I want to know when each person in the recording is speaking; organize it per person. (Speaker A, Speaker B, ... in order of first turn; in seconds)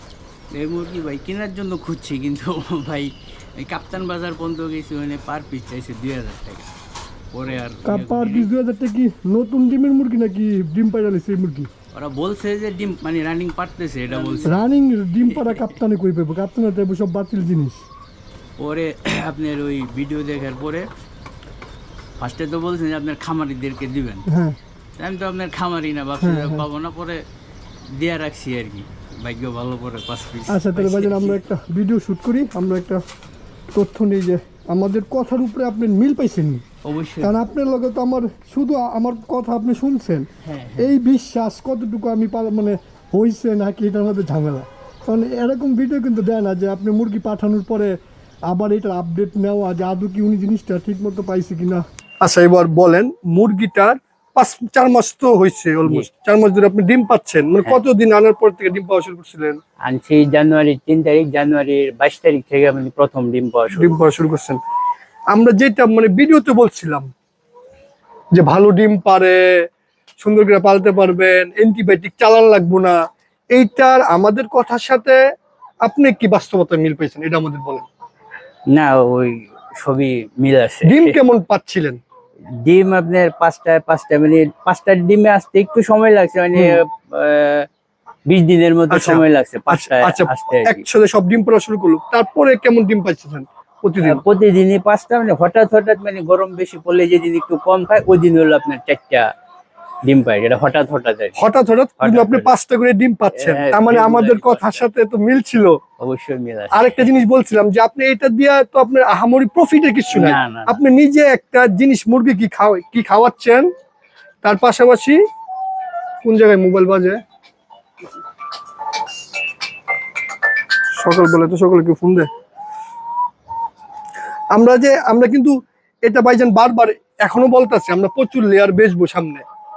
Speaker A: 0.5-6.7, 7.3-8.5, 11.9-14.6, 15.3-15.8, 18.6-20.9, 22.2-24.3, 25.0-27.2, 27.9-31.4, 36.8-37.4, 40.4-41.0, 59.9-64.0, 78.7-81.2, 82.6-87.7, 88.3-90.8, 94.0-99.3, 100.0-101.4, 102.0-102.5, 103.3-104.8, 106.0-107.1, 110.1-110.8
Speaker B: 7.8-11.7, 14.4-17.9, 24.3-24.6, 26.2-26.6, 30.5-33.0, 33.7-36.6, 37.2-48.0, 48.5-59.6, 63.7-64.6, 65.3-67.1, 68.3-69.4, 70.2-73.0, 73.5-75.2, 75.8-77.9, 80.8-82.0, 88.9-94.2, 101.4-105.8, 106.7-113.7, 114.4-115.2, 116.2-117.2, 121.0-122.3, 124.5-125.5, 126.0-129.4